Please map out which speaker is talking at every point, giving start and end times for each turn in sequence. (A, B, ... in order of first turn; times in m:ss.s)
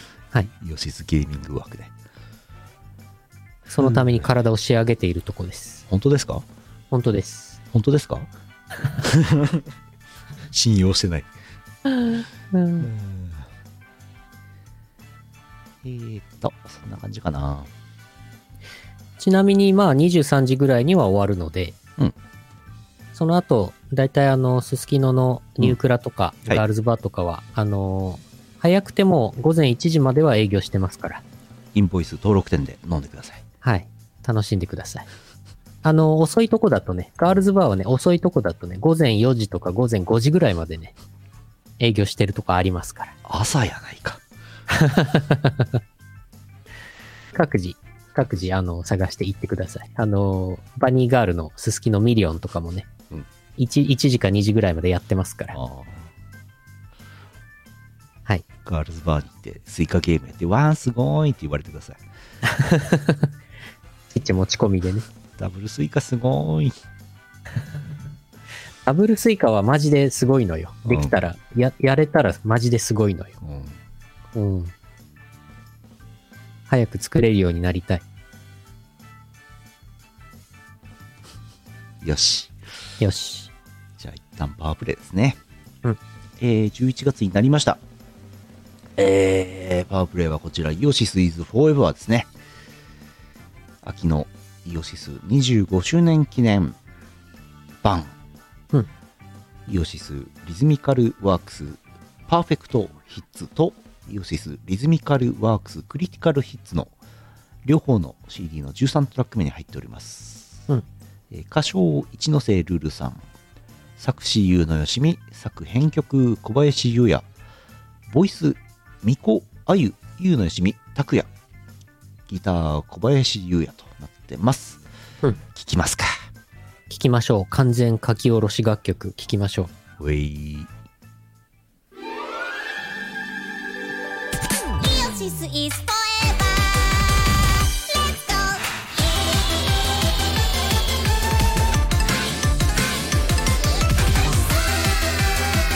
0:00.6-0:01.9 A
0:03.7-0:05.8 B
0:03.8-0:04.3 A
0:05.9-0:06.4 A
0:06.9-0:07.6 B
0:07.7-0:08.3 A
0:09.0-0:09.6 A
0:10.5-0:11.3 A
0:12.1-0:12.9 B
0:12.8-0:13.5 A
0:15.8-0:17.7 A
0:19.2-0:21.8 B
0:23.2-0:31.2 B
0:31.7-0:33.4 A
0:33.6-0:35.1 B
0:35.8-0:40.9 B
0:41.8-0:43.2 B
0:43.2-0:44.2 A
0:44.7-0:45.7 B
0:47.3-0:52.9 B
0:53.6-0:55.6 B
0:55.5-0:56.1 A
0:58.6-1:02.0 A
1:02.5-1:03.2 B
1:04.1-1:05.0 B
1:05.4-1:06.8 A
1:08.9-1:13.4 B
1:10.9-1:11.2 A
1:13.4-1:13.8 A
1:14.4-1:14.7 B
1:16.7-1:18.0 B
1:22.0-1:22.6 A
1:23.0-1:23.5 B
1:24.0-1:25.4 A
1:26.4-1:27.8 A
1:29.0-1:32.3 A
1:33.8-1:36.8 A
1:37.8-1:38.1 A
1:39.7-1:46.9 A
1:47.6-1:50.6 A
1:51.3-1:53.2 A
1:54.0-1:57.2 A
1:58.1-2:01.3 A
2:02.3-2:04.8 A
2:05.6-2:06.1 A
2:06.9-2:09.7 B
2:10.0-2:10.7 A
2:14.7-2:17.2 C
2:17.8-2:18.7 C